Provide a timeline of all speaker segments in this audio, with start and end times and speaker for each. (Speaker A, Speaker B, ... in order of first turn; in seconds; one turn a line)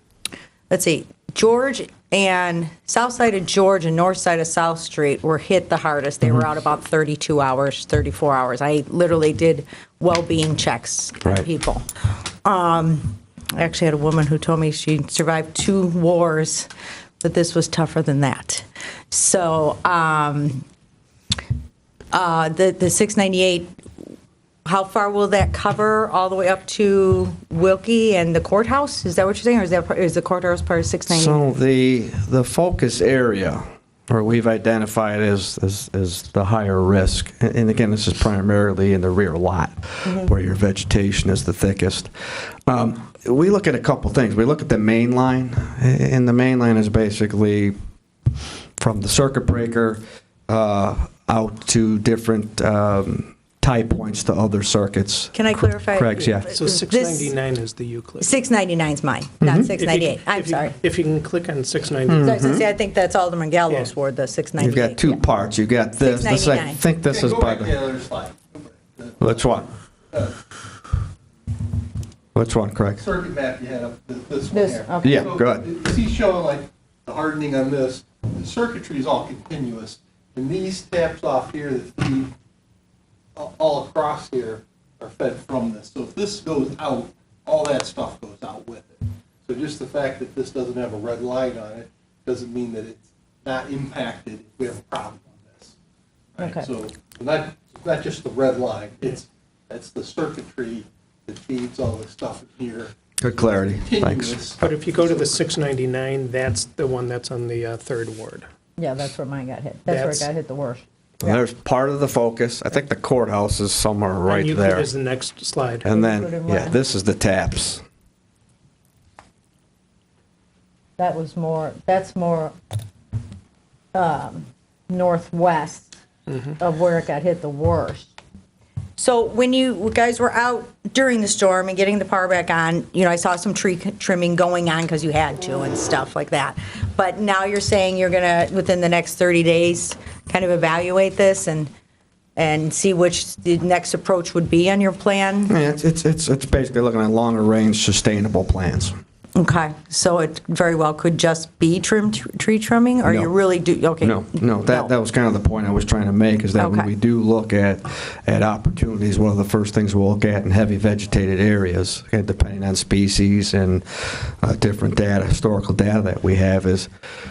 Speaker A: 0.7-11.9
Speaker A: 12.4-16.7
Speaker A: 17.2-20.6
Speaker A: 22.1-23.7
Speaker A: 24.6-31.4
Speaker B: 31.1-42.1
Speaker B: 42.7-47.8
Speaker B: 48.8-56.6
Speaker A: 55.3-57.4
Speaker C: 56.4-58.3
Speaker A: 58.2-60.8
Speaker B: 59.4-59.7
Speaker C: 59.7-62.4
Speaker B: 62.1-62.6
Speaker A: 62.2-65.2
Speaker C: 63.7-63.9
Speaker B: 64.6-67.8
Speaker A: 66.0-66.8
Speaker D: 67.0-69.6
Speaker B: 69.2-69.7
Speaker D: 70.1-70.4
Speaker B: 72.3-73.0
Speaker D: 73.0-82.3
Speaker A: 74.5-75.3
Speaker B: 75.0-75.7
Speaker D: 83.4-95.8
Speaker D: 96.4-105.4
Speaker A: 96.4-96.7
Speaker B: 103.2-104.7
Speaker C: 104.6-108.5
Speaker A: 108.8-111.4
Speaker C: 109.9-110.3
Speaker B: 111.2-114.9
Speaker C: 114.3-115.9
Speaker B: 115.8-117.8
Speaker A: 115.9-116.8
Speaker A: 121.0-122.5
Speaker A: 123.9-125.9
Speaker A: 126.6-128.1
Speaker A: 129.0-141.7
Speaker A: 142.4-145.6
Speaker B: 145.5-149.0
Speaker A: 149.4-154.9
Speaker B: 153.0-153.3
Speaker B: 154.0-166.9
Speaker A: 156.6-156.9